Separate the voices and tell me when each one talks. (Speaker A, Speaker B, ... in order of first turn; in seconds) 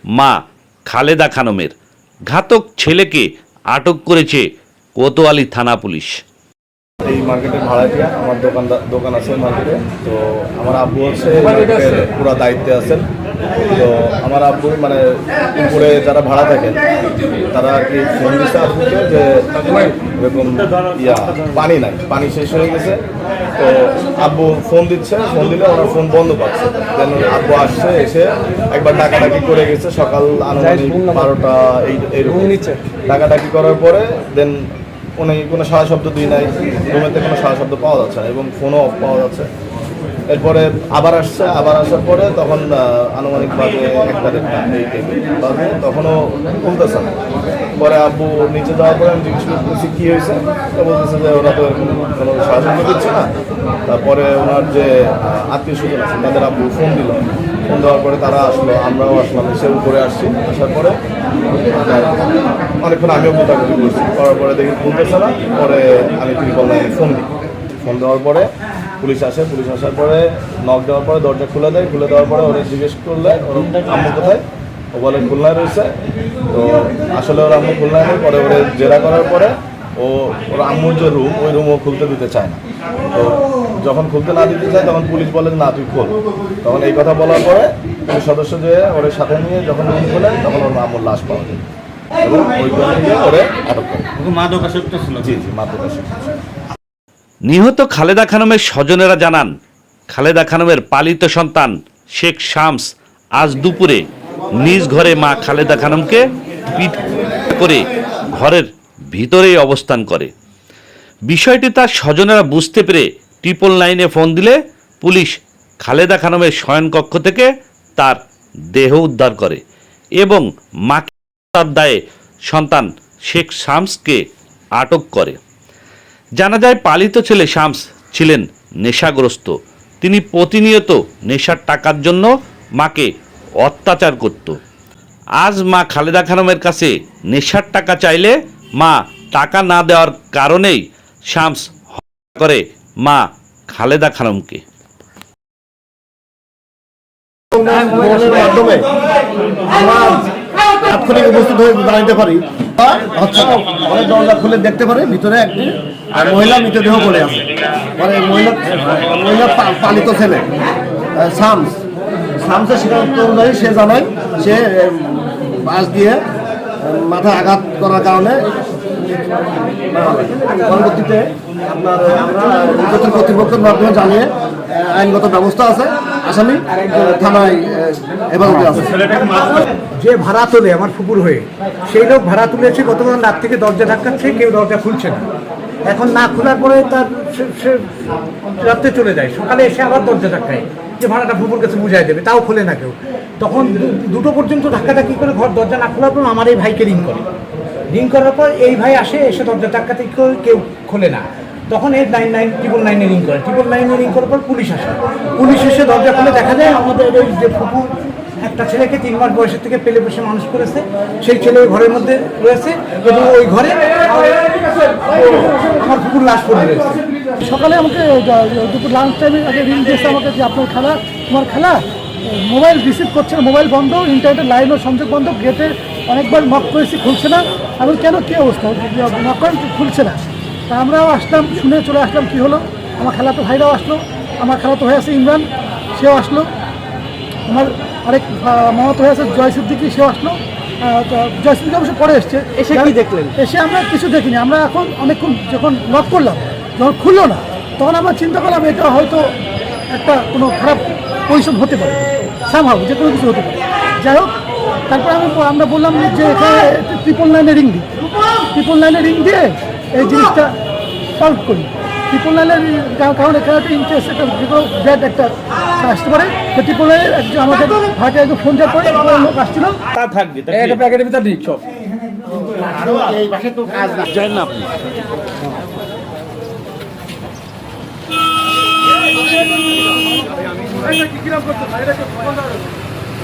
Speaker A: 0.9-1.7, 2.3-4.5, 5.0-6.1, 97.5-99.5, 100.1-110.3, 111.3-118.2, 118.7-119.6, 120.2-122.0, 122.5-124.2, 124.8-125.4, 126.4-133.1, 133.6-134.6, 135.4-144.6, 274.2-274.5
Speaker B: 7.0-13.1, 13.7-16.9, 17.5-23.0, 23.6-34.7, 35.2-39.5, 40.3-47.1, 47.8-53.3, 53.9-61.0, 61.6-62.2, 62.8-67.3, 67.8-74.4, 74.9-75.9, 76.5-82.6, 83.1-91.6, 92.2-94.1, 95.0-96.4
Speaker C: 30.6-31.3, 32.3-32.8, 242.6-243.3, 270.5-271.6
Speaker D: 147.5-148.9, 149.6-160.5, 161.2-161.8, 162.4-166.2, 166.8-168.5, 169.9-179.1
Speaker E: 179.4-185.2, 185.9-187.9, 188.6-197.3, 197.9-217.0
Speaker F: 217.4-236.5, 237.5-249.3, 249.9-254.3, 254.9-257.9, 258.5-260.5, 261.1-269.8